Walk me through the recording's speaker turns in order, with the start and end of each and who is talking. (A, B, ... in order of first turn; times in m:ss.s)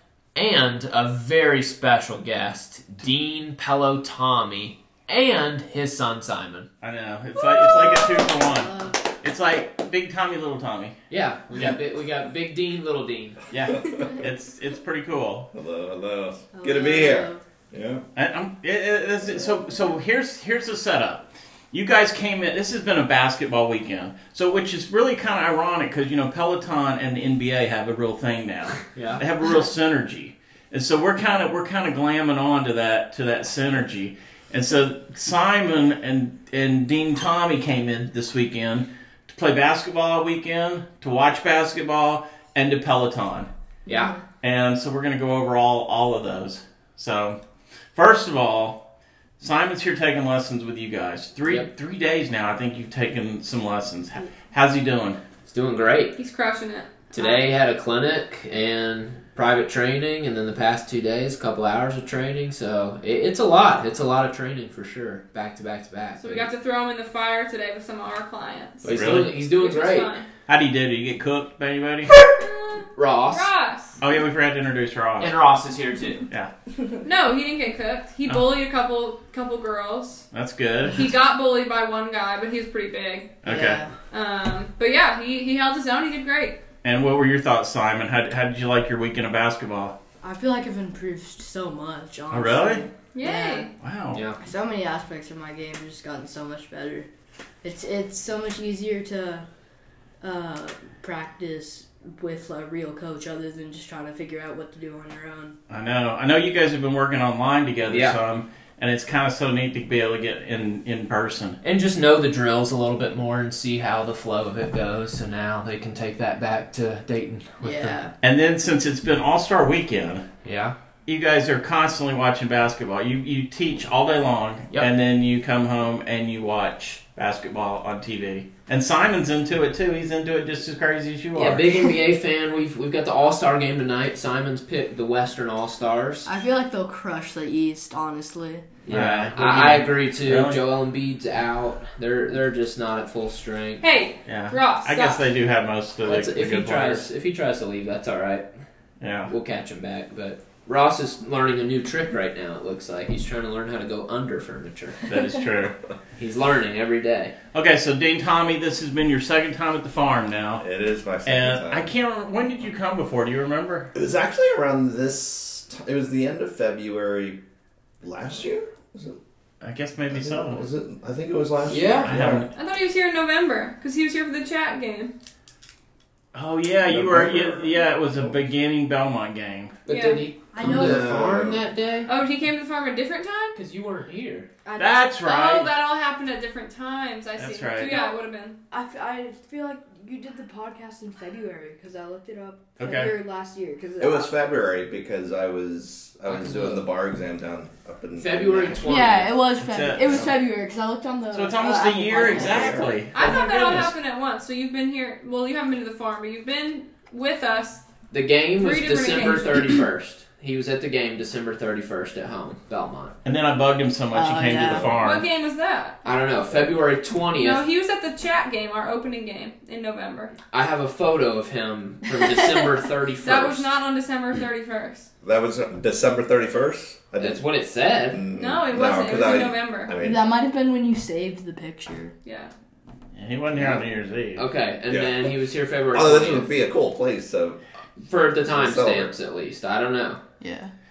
0:00.4-0:06.7 A
0:06.8-0:11.0 B
0:07.7-0:08.9 C
0:11.1-0:13.4 A
0:13.5-0:15.5 B
0:13.7-0:14.2 D
0:15.5-0:18.0 D
0:16.5-0:17.4 C
0:18.2-0:43.5 B
0:28.9-0:29.2 A
0:43.9-0:44.1 A
0:43.9-0:44.2 C
0:44.4-0:47.4 B
0:48.0-0:48.8 B
0:49.4-0:55.2 B
0:55.5-0:56.2 A
0:56.2-0:57.1 E
0:57.1-1:06.5 A
1:06.2-1:10.3 E
1:08.8-1:10.1 A
1:08.9-1:09.3 B
1:10.5-1:12.1 B
1:12.3-1:14.0 E
1:13.0-1:13.5 A
1:14.0-1:15.4 B
1:15.2-1:16.3 A
1:17.0-1:20.2 E
1:20.3-1:21.0 B
1:20.9-1:23.4 E
1:23.4-1:23.8 B
1:23.4-1:23.9 C
1:24.1-1:26.6 E
1:26.8-1:30.0 B
1:30.2-1:33.7 C
1:32.3-1:32.8 B
1:33.1-1:33.7 E
1:33.8-1:34.2 B
1:34.1-1:34.4 A
1:34.4-1:37.1 C
1:37.6-1:39.5 C
1:40.2-1:45.6 C
1:45.7-1:51.6 B
1:47.9-1:48.2 A
1:51.6-1:58.0 A
1:57.6-1:58.1 C
1:58.2-2:00.3 B
2:00.4-2:00.8 A
2:01.1-2:11.6 B
2:11.4-2:16.3 A
2:16.3-2:18.7 C
2:18.8-2:23.8 A
2:18.9-2:20.6 B
2:23.8-2:25.2 E
2:24.3-2:27.1 B
2:26.0-2:28.5 A
2:29.0-2:29.3 B
2:29.3-2:35.0 A
2:35.1-2:35.8 B
2:36.2-2:37.4 A
2:37.5-2:40.7 B
2:40.6-2:41.9 D
2:41.2-2:43.9 B
2:43.9-2:47.4 D
2:48.0-2:49.2 D
2:49.6-2:50.7 B
2:50.1-2:52.4 D
2:51.7-2:52.4 A
2:51.9-2:52.5 B
2:52.6-2:55.1 E
2:56.3-2:59.8 B
2:56.9-2:58.5 D
2:59.9-3:02.1 A
2:59.9-3:00.3 E
3:00.5-3:01.3 C
3:00.6-3:01.6 D
3:02.1-3:03.6 E
3:03.6-3:04.5 A
3:04.6-3:05.0 C
3:04.8-3:05.7 B
3:05.2-3:08.6 E
3:07.4-3:08.0 B
3:07.9-3:08.2 C
3:08.7-3:14.3 C
3:12.8-3:13.1 B
3:14.0-3:19.1 D
3:16.3-3:16.9 A
3:18.2-3:19.4 A
3:18.8-3:23.0 C
3:19.6-3:20.3 B
3:21.3-3:23.9 B
3:22.2-3:23.0 D
3:23.1-3:27.8 E
3:28.1-3:33.2 A
3:28.6-3:29.7 E
3:33.2-3:35.3 B
3:34.1-3:34.9 C
3:34.7-3:35.0 D
3:35.0-3:36.0 E
3:36.0-3:37.6 A
3:37.4-3:40.3 E
3:40.5-3:43.7 A
3:42.2-3:42.7 C
3:43.2-3:45.1 E
3:45.2-3:47.4 D
3:47.2-3:48.2 A
3:48.1-3:50.2 D
3:48.3-3:49.9 E
3:50.0-3:52.2 C
3:52.2-3:52.5 E
3:53.2-3:54.4 B
3:53.5-3:53.8 A
3:54.4-3:56.5 A
3:54.9-3:55.3 D
3:55.9-3:57.6 D
3:58.1-4:00.2 A
3:58.4-3:59.1 D
4:00.4-4:00.7 C